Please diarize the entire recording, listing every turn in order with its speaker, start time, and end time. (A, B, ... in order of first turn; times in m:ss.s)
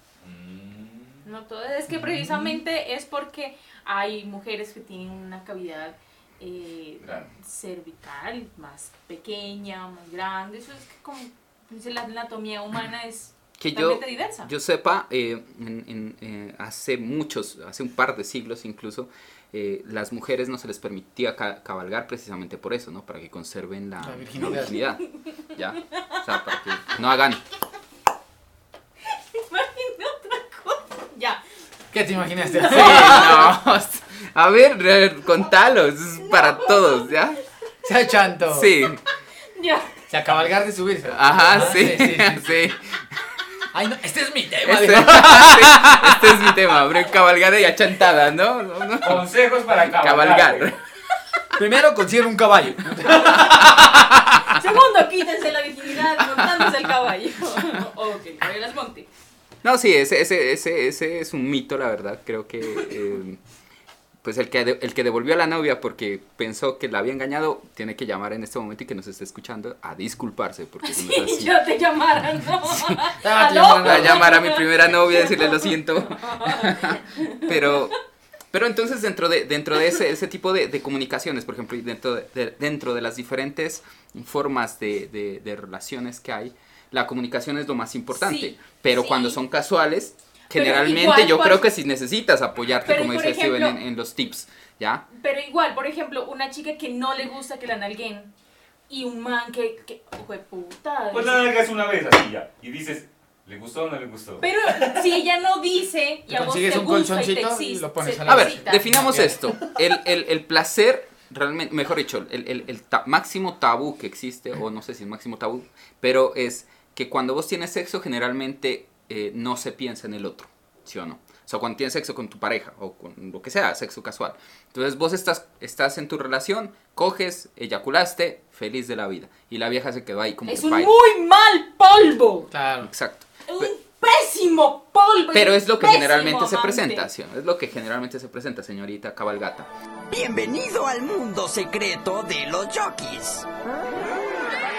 0:00.2-0:01.2 A
0:01.2-0:14.5 B
0:01.9-0:02.6 C
0:07.0-0:07.3 A
0:13.6-0:25.0 D
0:24.0-0:24.8 C
0:25.5-0:27.4 D
0:29.5-0:31.4 B
0:31.9-0:33.6 C
0:32.4-0:33.5 B
0:32.6-0:37.4 D
0:36.3-0:37.1 B
0:37.8-0:38.8 C
0:38.5-0:39.0 D
0:39.5-0:40.0 B
0:40.1-0:42.5 C
0:41.0-0:43.0 D
0:43.7-0:46.5 C
0:44.6-0:50.8 D
0:49.0-0:50.7 A
0:51.6-0:54.5 C
0:54.5-0:59.1 B
0:59.6-1:03.4 D
1:04.2-1:11.6 D
1:10.8-1:17.9 B
1:13.2-1:14.4 C
1:13.8-1:17.9 D
1:18.5-1:35.0 D
1:28.1-1:29.4 B
1:30.5-1:31.7 B
1:32.8-1:33.8 B
1:35.1-1:38.3 B
1:38.9-1:41.5 B
1:41.1-1:45.2 A
1:44.4-1:48.8 B
1:46.3-1:49.7 C
1:48.2-2:10.9 D
2:10.4-2:12.5 B
2:12.5-2:12.9 C
2:12.8-2:13.7 D
2:13.5-2:17.1 B
2:15.3-2:19.7 D
2:20.1-2:23.5 E